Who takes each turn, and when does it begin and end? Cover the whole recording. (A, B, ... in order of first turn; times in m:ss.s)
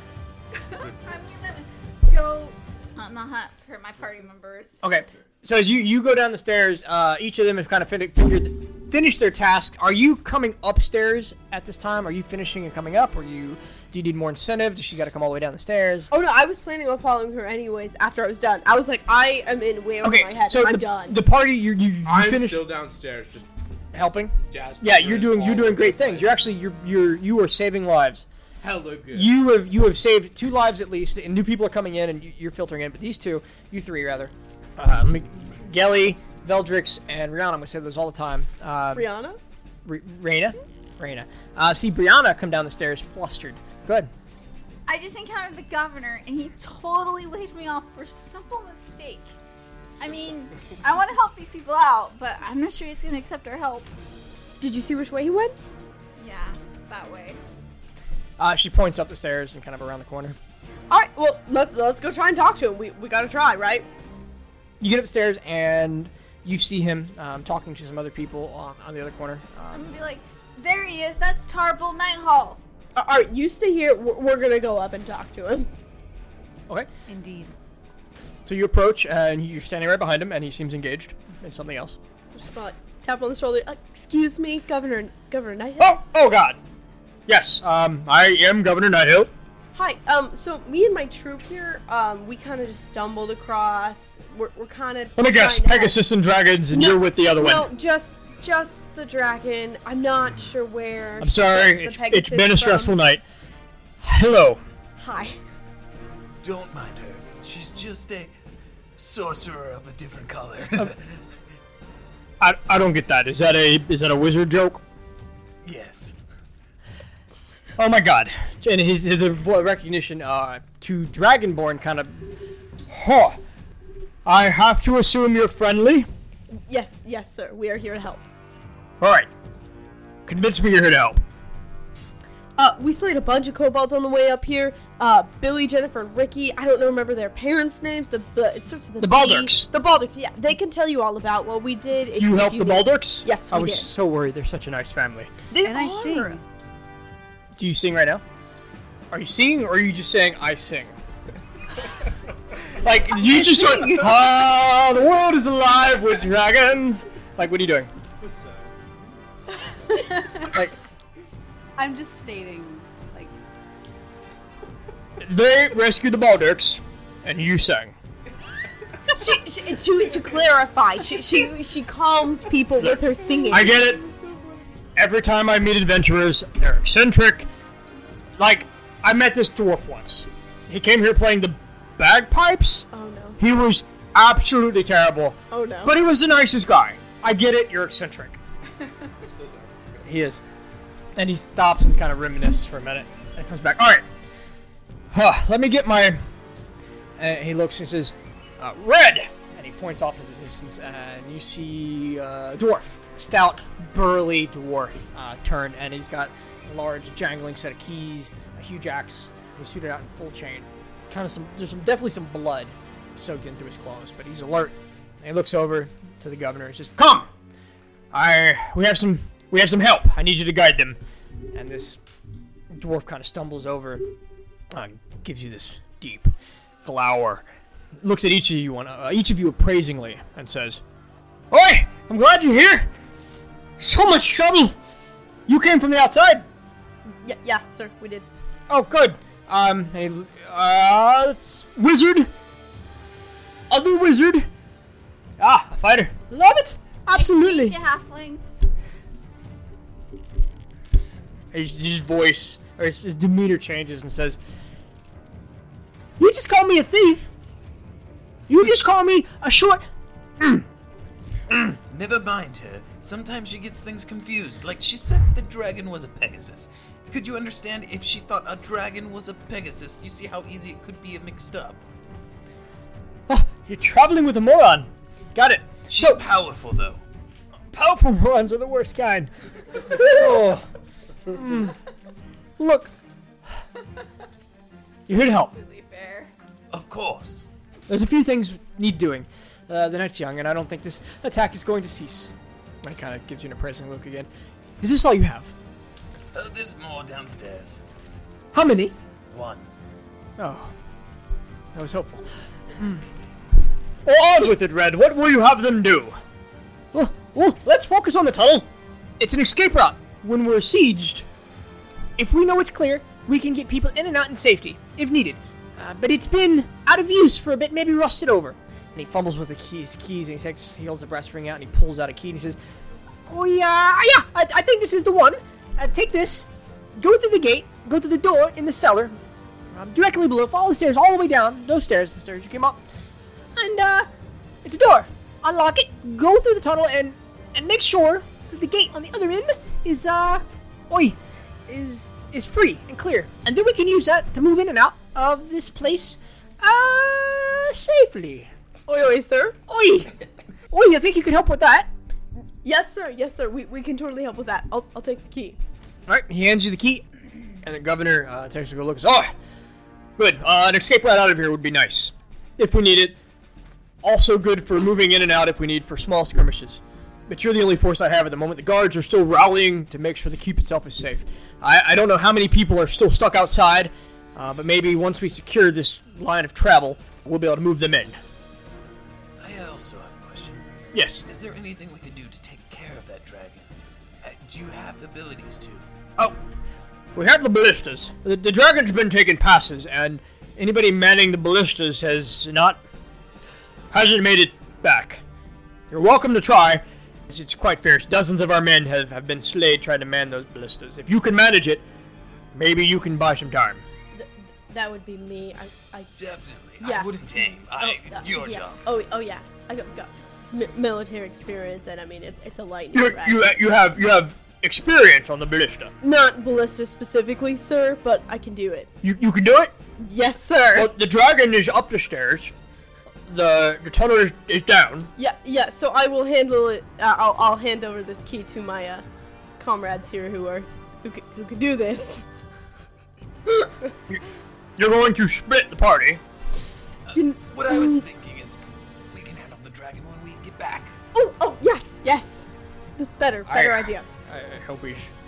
0:00.6-0:04.8 A
0:00.8-0:01.3 B
0:04.8-0:16.1 C
0:16.1-0:21.2 D
0:20.0-0:22.6 C
0:22.0-0:23.5 B
0:23.9-0:28.3 C
0:24.5-0:26.4 B
0:28.6-0:29.3 B
0:29.1-0:39.1 C
0:38.9-0:39.4 D
0:39.8-0:44.1 C
0:44.9-0:49.3 A
0:50.0-0:53.9 A
0:54.6-0:55.6 D
0:56.2-0:57.4 A
0:58.4-1:00.4 C
1:00.9-1:03.9 D
1:04.8-1:09.9 C
1:09.7-1:12.6 A
1:13.0-1:15.7 D
1:17.1-1:17.5 E
1:18.4-1:22.0 C
1:22.3-1:26.0 D
1:25.8-1:26.6 C
1:27.3-1:29.3 C
1:29.7-1:36.0 D
1:35.2-1:37.7 C
1:36.7-1:43.0 D
1:41.2-1:43.2 C
1:44.0-1:44.6 C
1:45.0-1:45.4 D
1:46.4-1:48.3 F
1:49.0-1:51.0 F
1:52.4-1:54.8 C
1:55.6-1:56.2 F
1:57.8-2:02.3 C
2:02.9-2:03.4 C
2:04.3-2:06.1 C
2:06.7-2:08.2 D
2:09.0-2:09.3 C
2:10.3-2:11.2 C
2:12.6-2:23.9 D
2:19.0-2:19.7 C
2:22.2-2:25.3 C
2:25.5-2:26.4 D
2:25.6-2:26.4 E
2:27.6-2:28.2 C
2:29.1-2:30.9 C
2:32.7-2:37.9 C
2:33.3-2:33.8 E
2:38.2-2:38.7 B
2:39.9-2:40.6 E
2:40.4-2:40.7 C
2:41.8-2:43.4 E
2:45.2-2:47.9 C
2:49.1-2:53.8 D
2:52.8-2:54.0 C
2:55.0-2:57.5 C
2:58.4-3:02.9 C
3:02.9-3:03.4 D
3:03.4-3:08.4 C
3:05.5-3:06.0 D
3:09.3-3:10.1 B
3:10.0-3:10.4 C
3:11.2-3:14.0 C
3:15.1-3:16.2 C
3:17.2-3:37.3 C
3:38.1-3:41.0 C
3:41.5-3:42.0 C
3:42.7-3:44.1 C
3:44.7-3:46.3 C
3:46.8-3:47.4 C
3:48.0-3:50.8 C
3:51.5-3:52.9 C
3:53.8-3:54.7 C
3:55.5-3:56.5 C
3:57.2-3:58.3 D
3:58.7-4:02.3 C
4:03.7-4:04.5 C
4:05.4-4:07.8 C
4:07.1-4:08.4 A
4:11.5-4:14.4 C
4:16.2-4:17.3 C
4:18.5-4:19.8 C
4:21.9-4:31.8 F
4:33.3-4:36.2 C
4:35.9-4:37.0 F
4:37.7-4:40.7 C
4:41.3-4:41.8 C
4:42.6-4:42.9 C
4:45.1-4:45.5 C
4:45.1-4:46.3 A
4:46.7-4:47.5 F
4:47.9-4:54.3 C
4:54.8-4:55.5 C
4:56.3-4:57.8 F
4:58.5-4:59.0 C
4:59.3-4:59.7 F
5:00.4-5:00.7 C
5:01.7-5:03.0 C
5:04.0-5:06.2 C
5:06.9-5:08.7 C
5:09.2-5:11.3 C
5:12.2-5:22.6 C
5:23.3-5:29.2 C
5:29.7-5:32.8 C
5:33.6-5:34.1 C
5:34.6-5:48.5 C
5:48.9-5:49.6 D
5:49.7-5:50.1 C
5:50.7-5:51.9 C
5:52.6-5:55.6 D
5:56.1-5:57.1 C
5:57.6-5:59.3 C
6:00.2-6:03.2 C
6:04.0-6:18.2 C
6:19.4-6:20.7 F
6:20.9-6:21.2 C
6:21.3-6:25.8 F
6:27.2-6:32.8 C
6:33.9-6:35.2 C
6:35.9-6:41.8 C
6:42.5-6:43.8 C
6:44.1-6:46.1 D
6:46.2-6:48.8 F
6:46.8-6:53.4 D
6:52.9-6:55.9 C
6:56.0-6:58.9 D
6:59.0-6:59.7 C
7:00.0-7:00.9 D
7:00.8-7:02.5 C
7:03.3-7:05.1 C
7:05.2-7:09.0 D
7:09.6-7:12.3 D
7:14.8-7:16.2 C
7:17.1-7:21.0 F
7:17.1-7:18.0 D
7:21.1-7:24.1 D
7:23.5-7:25.1 C